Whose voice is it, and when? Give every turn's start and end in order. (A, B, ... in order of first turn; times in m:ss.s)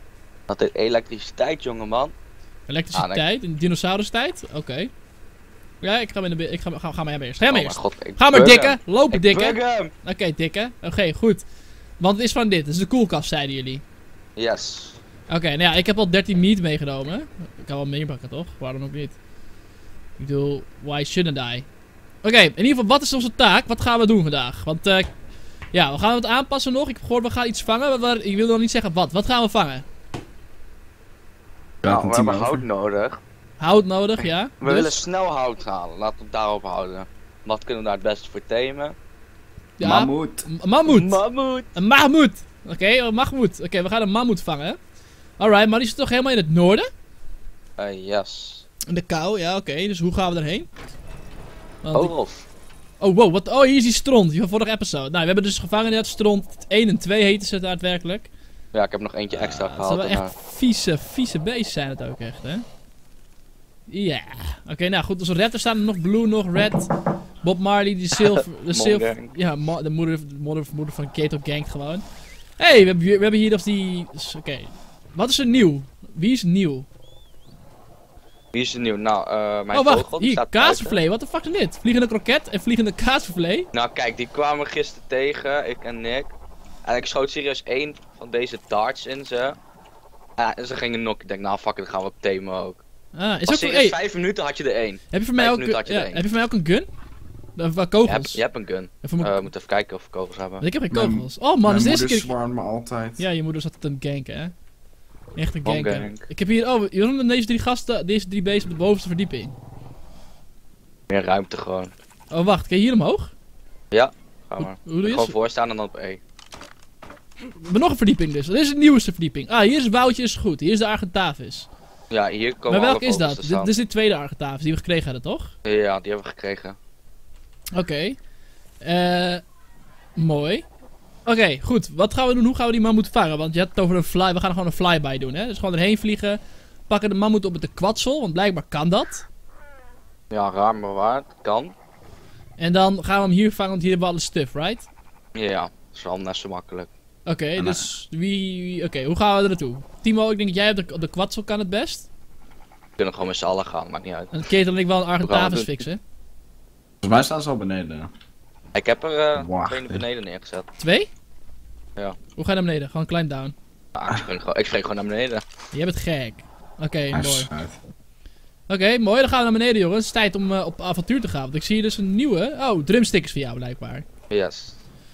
0:00.5-0:02.1 A
0:02.7-0:04.9 B
0:02.9-0:03.3 A
0:05.8-0:11.4 B
0:07.5-0:09.9 A
0:12.0-0:13.8 B
0:14.4-0:15.0 A
0:15.3-0:19.1 B
0:20.2-0:21.6 B
0:22.2-0:25.1 B
0:25.7-0:29.8 B
0:31.8-0:32.6 C
0:31.8-0:33.2 A
0:33.6-0:34.9 B
0:34.2-0:39.0 A
0:39.8-0:41.2 B
0:39.8-0:40.5 C
0:40.8-0:41.7 A
0:41.7-0:44.8 B
0:45.4-0:46.9 B
0:47.8-0:48.6 A
0:48.9-0:50.7 B
0:51.8-0:52.1 B
0:51.9-0:52.4 A
0:53.0-0:58.3 B
0:58.7-1:00.3 A
0:59.3-1:02.6 B
1:03.9-1:06.9 B
1:07.4-1:12.0 B
1:08.2-1:09.3 A
1:12.6-1:16.9 B
1:18.5-1:21.0 A
1:19.7-1:23.7 B
1:23.7-1:26.3 A
1:26.8-1:29.6 A
1:30.4-1:32.8 A
1:33.1-1:34.0 B
1:33.5-1:36.2 A
1:35.1-1:36.9 B
1:37.6-1:38.4 B
1:38.0-1:40.6 A
1:39.0-1:39.5 B
1:40.6-1:42.3 B
1:40.9-1:43.2 C
1:43.2-1:44.5 B
1:45.3-1:49.5 B
1:45.6-1:46.2 A
1:51.1-1:51.9 A
1:52.3-1:53.3 B
1:53.9-1:56.2 A
1:54.6-1:55.3 B
1:57.5-2:01.7 B
2:02.1-2:03.7 A
2:02.7-2:05.5 B
2:05.6-2:06.8 A
2:07.7-2:08.2 B
2:08.8-2:09.4 B
2:10.2-2:10.6 B
2:11.2-2:19.2 B
2:20.3-2:21.7 A
2:22.6-2:24.9 B
2:25.3-2:26.9 A
2:27.2-2:32.1 B
2:27.6-2:27.8 C
2:33.0-2:34.3 A
2:34.3-2:36.0 B
2:35.2-2:35.8 A
2:37.0-2:38.1 C
2:38.7-2:40.7 A
2:39.3-2:40.0 C
2:40.8-2:41.1 B
2:42.4-2:43.5 B
2:43.9-2:45.4 A
2:45.7-2:47.5 B
2:47.1-2:47.8 C
2:48.7-2:54.0 B
2:54.3-2:54.8 A